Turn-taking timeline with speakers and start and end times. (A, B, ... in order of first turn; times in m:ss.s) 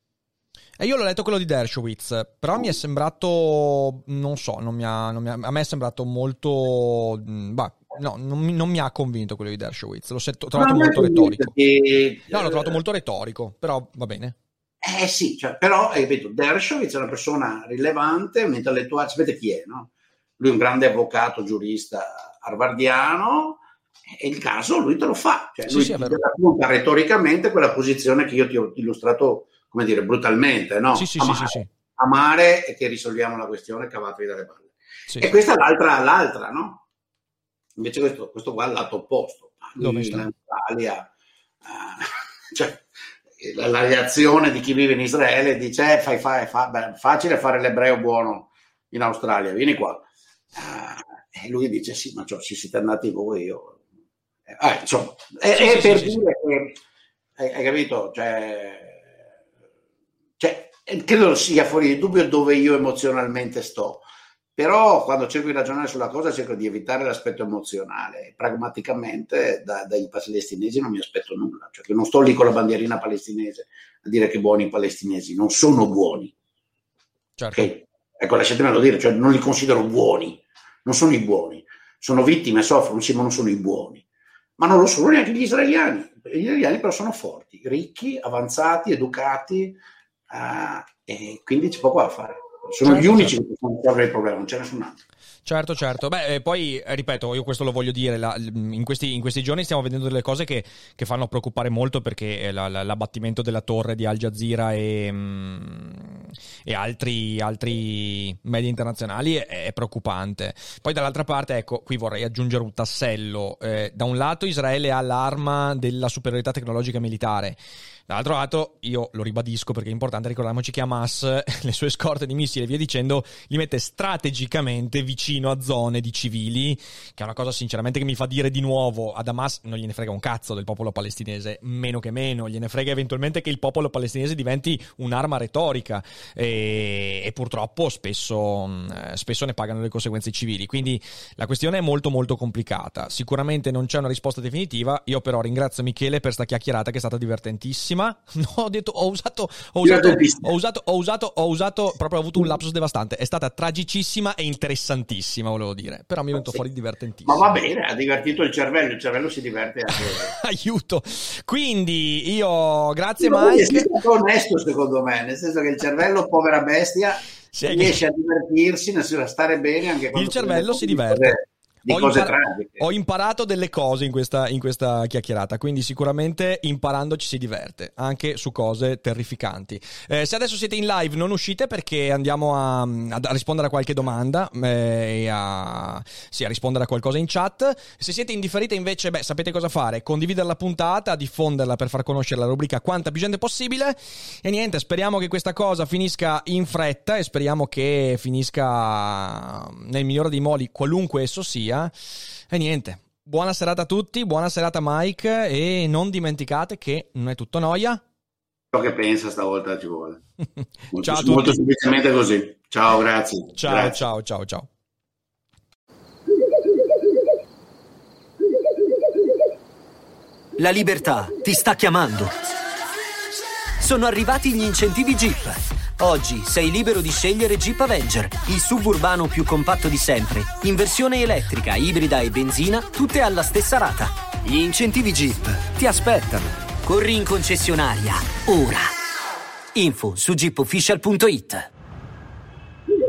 0:00.8-0:11.5 A
0:10.6-0:12.8 B
0:12.3-0:14.4 A
0:14.8-0:36.8 B
0:25.6-0:26.2 A
0:30.9-0:31.7 A
0:35.1-0:35.3 A
0:37.8-0:41.1 B
0:39.8-0:40.3 A
0:41.6-0:42.8 B
0:43.4-0:53.8 B
0:54.5-0:56.8 B
0:55.5-0:56.2 A
0:57.4-0:59.1 B
1:00.4-1:04.0 B
1:04.6-1:16.3 B
1:17.4-1:17.7 A
1:17.5-1:24.0 B
1:24.6-1:29.8 B
1:30.3-1:35.0 B
1:32.8-1:33.4 A
1:35.4-2:37.5 A
2:29.8-2:30.5 B
2:37.2-2:40.3 B
2:39.9-2:43.9 A
2:43.2-2:52.8 B
2:47.5-2:48.0 A
2:50.1-3:21.9 A
3:22.5-3:28.0 A
3:28.7-3:30.2 B
3:30.6-3:31.6 A
3:30.9-3:34.0 B
3:33.6-3:34.7 A
3:40.6-3:42.3 C
3:43.8-3:58.9 C
3:59.7-4:01.7 C